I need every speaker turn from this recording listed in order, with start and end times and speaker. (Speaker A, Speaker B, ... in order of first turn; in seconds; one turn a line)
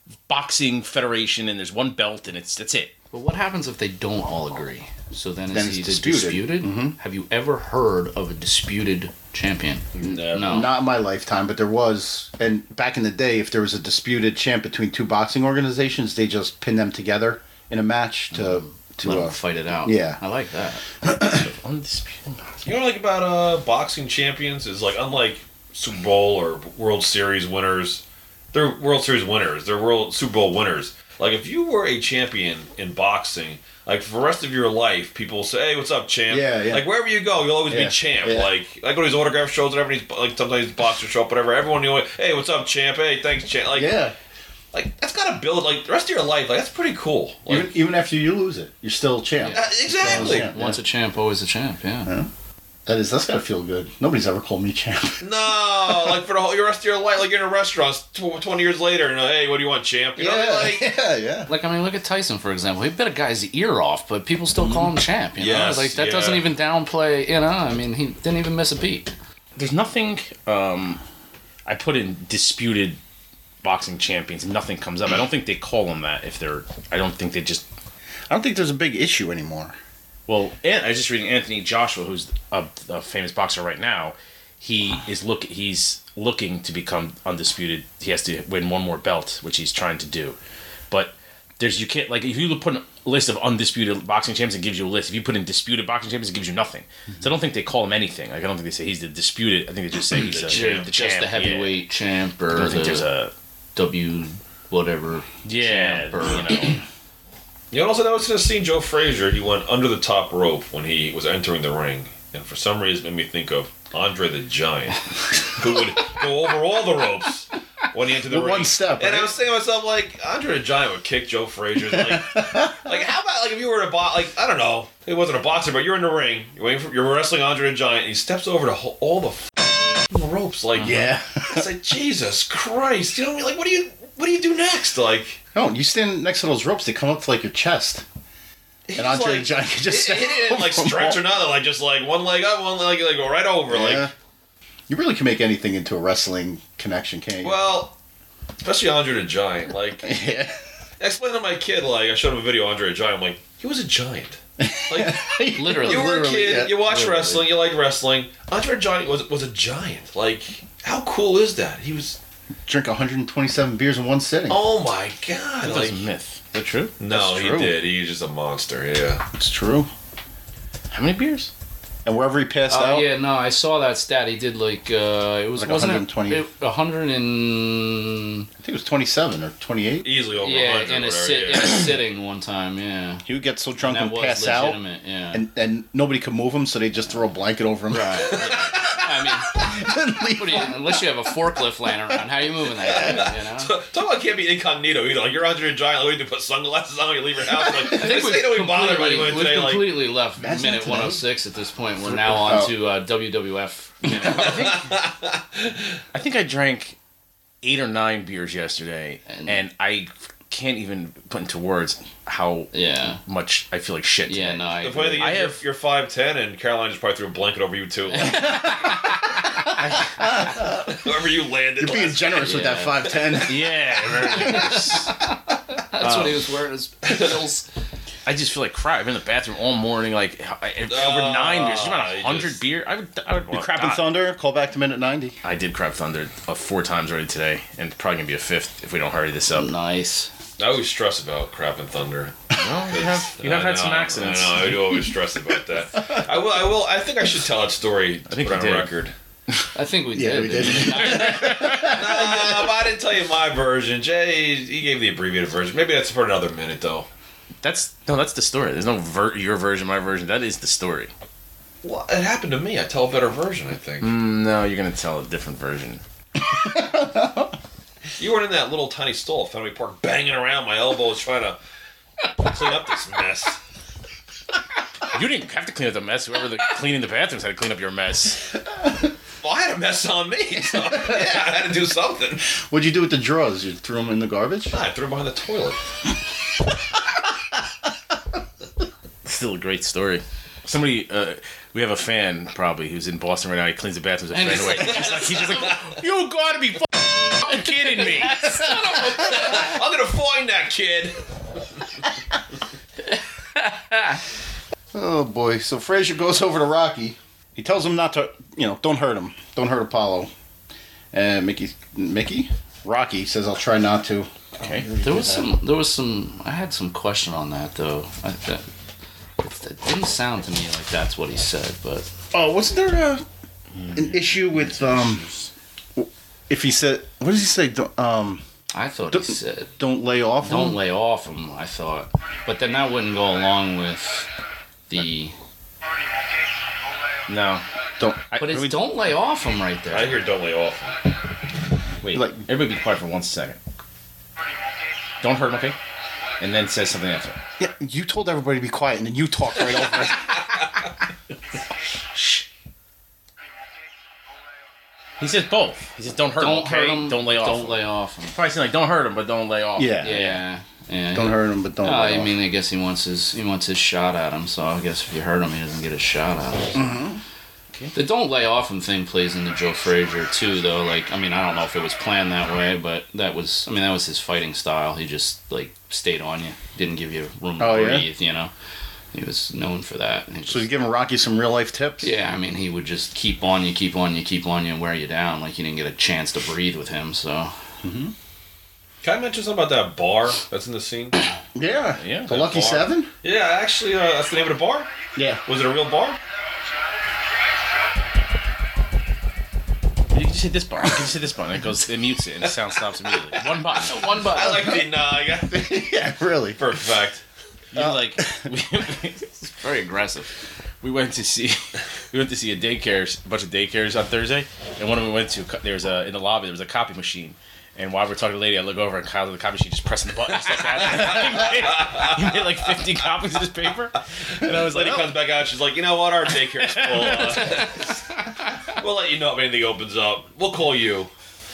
Speaker A: 0.3-2.9
Speaker B: 3.1-10.7
Speaker C: 5.5-7.0
Speaker A: 10.0-10.7
Speaker C: 10.4-20.2
Speaker B: 18.3-20.9
Speaker C: 21.0-21.4
Speaker A: 21.1-22.5
Speaker D: 22.6-44.1
Speaker C: 36.3-36.8
Speaker C: 37.7-38.5
Speaker C: 43.7-44.1
Speaker D: 44.7-47.7
Speaker C: 47.5-50.8
Speaker B: 49.4-52.1
Speaker D: 49.5-50.5
Speaker C: 52.9-55.2
Speaker D: 55.2-60.9
Speaker C: 55.9-56.2
Speaker C: 60.2-61.5
Speaker B: 61.5-69.1
Speaker C: 64.6-65.0
Speaker D: 65.4-66.5
Speaker A: 69.6-71.0
Speaker A: 71.7-73.0
Speaker A: 73.6-77.7
Speaker C: 78.3-79.8
Speaker A: 80.3-90.4
Speaker A: 90.9-101.8
Speaker B: 100.2-103.1
Speaker D: 100.4-100.9
Speaker A: 102.5-103.3
Speaker B: 103.8-106.8
Speaker A: 105.5-106.8
Speaker D: 107.7-135.4
Speaker C: 118.3-119.3
Speaker C: 121.9-122.8
Speaker C: 130.8-131.7
Speaker C: 135.5-138.1
Speaker D: 138.9-144.1
Speaker C: 139.0-141.2
Speaker C: 143.7-144.1
Speaker C: 144.9-147.6
Speaker D: 147.4-148.0
Speaker D: 148.6-150.1
Speaker C: 150.0-150.6
Speaker D: 151.0-162.2
Speaker C: 154.6-156.9
Speaker B: 155.6-156.2
Speaker B: 156.8-157.5
Speaker C: 162.7-164.7
Speaker D: 164.5-166.0
Speaker A: 165.6-167.0
Speaker D: 167.0-169.2
Speaker C: 167.1-167.8
Speaker C: 169.3-169.9
Speaker A: 170.9-171.5
Speaker C: 172.1-173.1
Speaker B: 172.7-178.5
Speaker C: 175.6-176.4
Speaker C: 178.6-180.1
Speaker D: 180.0-181.9
Speaker B: 180.4-183.2
Speaker C: 183.3-184.8
Speaker B: 183.8-185.4
Speaker C: 185.3-190.8
Speaker B: 187.9-189.5
Speaker D: 188.4-188.7
Speaker B: 190.4-193.7
Speaker D: 192.9-200.0
Speaker B: 197.9-204.7
Speaker C: 200.4-201.2
Speaker C: 202.0-202.8
Speaker A: 204.2-205.0
Speaker D: 204.4-205.8
Speaker A: 206.1-207.0
Speaker A: 207.6-214.6
Speaker B: 209.3-209.6
Speaker B: 212.7-213.2
Speaker B: 214.3-215.3
Speaker D: 214.8-218.7
Speaker A: 215.2-215.6
Speaker B: 218.2-219.3
Speaker A: 219.8-220.2
Speaker C: 220.2-221.0
Speaker D: 220.5-222.5
Speaker C: 221.8-224.9
Speaker B: 222.4-223.1
Speaker A: 223.4-225.2
Speaker B: 224.3-227.7
Speaker A: 226.0-226.4
Speaker D: 227.1-227.3
Speaker A: 228.3-234.2
Speaker D: 230.9-232.6
Speaker C: 233.5-235.4
Speaker A: 235.4-239.7
Speaker B: 239.5-240.3
Speaker D: 240.6-242.4
Speaker A: 242.6-245.1
Speaker D: 242.9-249.1
Speaker A: 248.3-248.9
Speaker B: 249.8-251.4
Speaker C: 250.1-252.7
Speaker A: 251.1-252.0
Speaker D: 251.4-257.1
Speaker A: 257.6-261.1
Speaker D: 261.8-264.1
Speaker A: 264.0-266.0
Speaker C: 266.4-267.5
Speaker D: 268.2-271.6
Speaker D: 272.4-273.6
Speaker A: 275.1-278.5
Speaker D: 279.4-282.5
Speaker C: 282.5-284.7
Speaker D: 284.7-285.8
Speaker A: 289.2-298.8
Speaker B: 294.3-295.4
Speaker D: 294.9-295.8
Speaker B: 297.7-299.8
Speaker D: 299.2-301.2
Speaker B: 303.6-304.2
Speaker C: 304.9-310.3
Speaker C: 311.1-315.5
Speaker A: 314.6-314.9
Speaker B: 315.0-318.7
Speaker B: 319.4-322.1
Speaker C: 322.3-323.2
Speaker A: 323.8-325.5
Speaker C: 323.9-325.2
Speaker C: 326.0-328.4
Speaker B: 328.7-329.7
Speaker C: 329.1-330.8
Speaker B: 330.4-334.3
Speaker B: 334.9-335.4
Speaker A: 337.3-337.6
Speaker C: 338.0-338.7
Speaker B: 338.4-340.2
Speaker A: 338.4-338.8
Speaker D: 339.9-341.0
Speaker A: 342.0-343.6
Speaker C: 342.1-342.4
Speaker A: 345.2-345.8
Speaker A: 346.4-347.4
Speaker C: 347.6-350.8
Speaker C: 352.1-352.4
Speaker A: 355.2-360.4
Speaker B: 356.4-358.4
Speaker C: 359.8-360.2
Speaker B: 360.0-367.0
Speaker C: 361.1-362.3
Speaker C: 366.8-367.2
Speaker B: 367.9-378.5
Speaker C: 377.6-378.1
Speaker B: 379.1-380.7
Speaker C: 380.5-382.1
Speaker B: 382.0-387.5
Speaker C: 387.8-388.1
Speaker D: 389.0-391.2
Speaker C: 391.6-393.1
Speaker A: 392.0-392.4
Speaker D: 392.3-394.9
Speaker C: 395.2-395.4
Speaker D: 395.5-396.2
Speaker A: 400.1-404.2
Speaker B: 403.8-404.8
Speaker D: 404.1-406.0
Speaker C: 404.6-404.8
Speaker C: 405.5-406.6
Speaker D: 406.6-407.2
Speaker A: 407.7-409.5
Speaker C: 407.8-408.4
Speaker B: 409.6-410.3
Speaker A: 410.8-425.1
Speaker D: 420.9-422.4
Speaker D: 424.4-428.0
Speaker A: 426.6-427.7
Speaker D: 428.6-431.1